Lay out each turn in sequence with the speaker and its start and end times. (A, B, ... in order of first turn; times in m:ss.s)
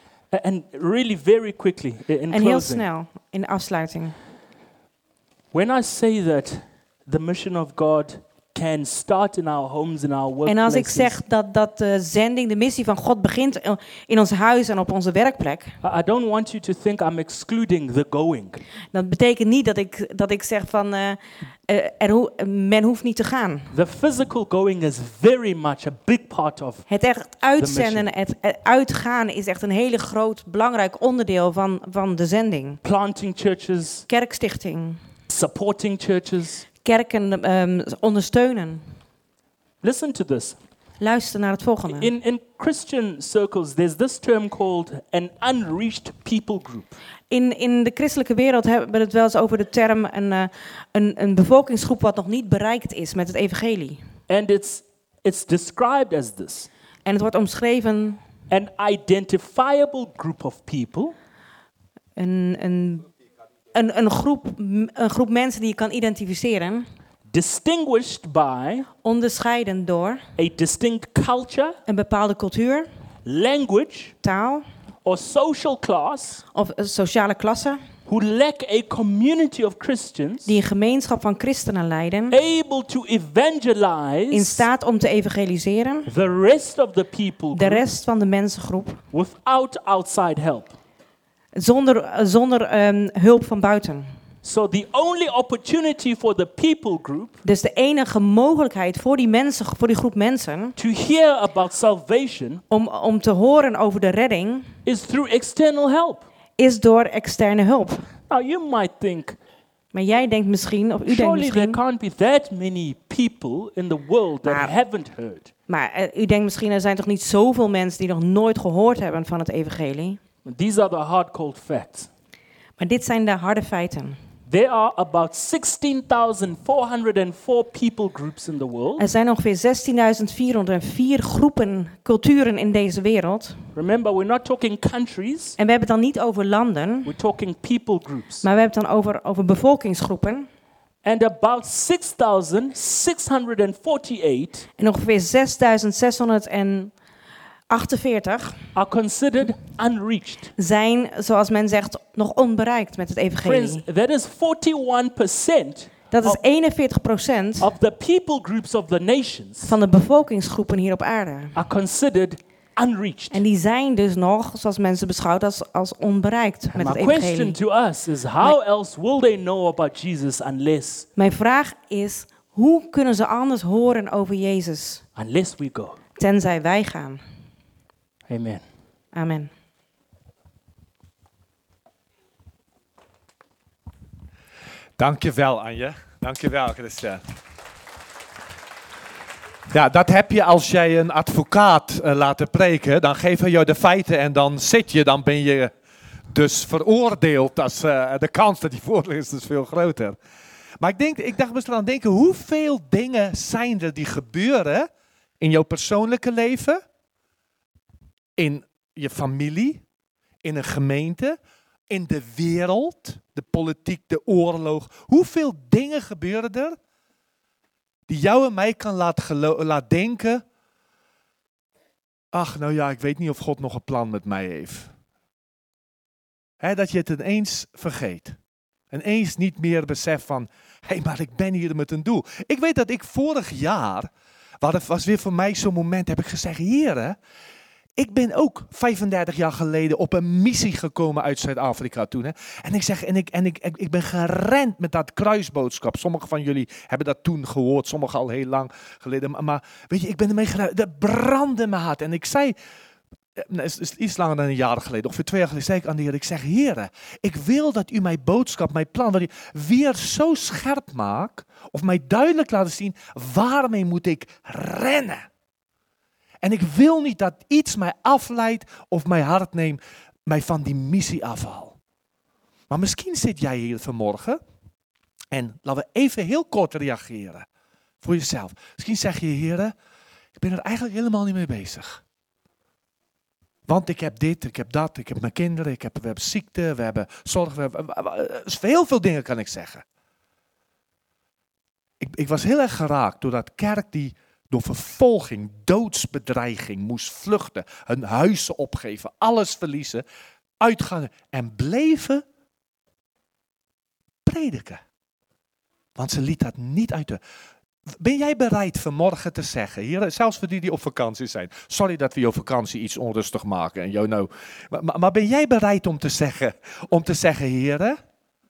0:00.3-0:02.8 A
0:02.3-0:04.2 B
0:05.5-0:11.2 A
0:10.5-0:15.7 B
0:15.8-0:18.6 A
0:18.9-0:23.7 B
0:23.7-0:26.9 A
0:26.9-0:32.8 B
0:27.6-0:28.1 A
0:32.8-0:34.1 A
0:34.1-0:35.0 B
0:35.3-0:36.7 A
0:36.8-0:38.8 B
0:39.8-0:40.6 A
0:41.0-0:42.1 B
0:41.9-0:47.0 A
0:47.3-0:54.0 B
0:54.3-0:56.7 A
0:57.0-0:58.2 B
0:58.5-1:01.2 A
1:02.2-1:03.1 B
1:03.7-1:06.9 B
1:07.3-1:08.9 A
1:09.0-1:10.2 B
1:10.4-1:11.8 A
1:11.9-1:12.9 B
1:13.2-1:14.1 A
1:14.2-1:14.7 B
1:15.0-1:16.4 A
1:16.5-1:17.8 B
1:18.1-1:20.5 A
1:20.5-1:22.4 B
1:22.3-1:24.7 A
1:24.3-1:26.1 B
1:26.1-1:27.8 A
1:27.5-1:29.0 B
1:29.1-1:30.8 A
1:31.6-1:34.1 B
1:34.4-1:37.4 A
1:37.4-1:40.8 B
1:40.8-1:42.6 A
1:42.7-1:44.7 B
1:44.9-1:46.2 A
1:46.6-1:48.1 B
1:48.3-1:49.4 A
1:49.9-1:51.8 B
1:51.1-1:55.5 A
1:54.4-1:54.7 B
1:55.7-2:00.2 B
2:00.4-2:02.1 A
2:02.8-2:04.2 B
2:04.5-2:09.0 A
2:09.0-2:13.6 B
2:13.8-2:15.6 A
2:15.6-2:17.1 B
2:17.1-2:18.4 A
2:18.4-2:20.5 B
2:21.0-2:24.7 A
2:24.8-2:26.9 B
2:27.7-2:28.6 B
2:28.8-2:30.5 A
2:30.6-2:33.8 B
2:33.4-2:36.4 A
2:36.1-2:37.7 B
2:37.6-2:39.8 A
2:39.6-2:41.6 B
2:41.6-2:43.4 A
2:43.3-2:47.6 B
2:46.7-2:51.1 A
2:51.2-2:55.0 B
2:55.2-2:56.0 A
2:56.2-2:57.2 B
2:58.3-2:58.6 A
2:59.1-2:59.5 B
3:05.0-3:07.2 C
3:09.7-3:15.7 C
3:16.3-3:20.2 C
3:20.8-3:24.9 C
3:25.4-3:26.8 C
3:28.4-3:29.8 C
3:30.4-3:31.4 C
3:31.9-3:36.8 C
3:38.1-3:40.4 C
3:42.3-3:44.9 C
3:46.6-3:48.4 C
3:48.9-3:57.2 C
3:58.0-4:12.6 C
4:13.4-4:25.3 C
4:26.4-4:31.8 C
4:32.7-4:34.4 C
4:35.3-4:37.5 C
4:38.0-4:39.7 C
4:40.4-4:42.0 C
4:43.7-4:49.8 C
4:52.0-5:00.0 C
5:00.6-5:02.2 C
5:04.3-5:04.8 C
5:06.0-5:07.2 C
5:07.9-5:18.0 C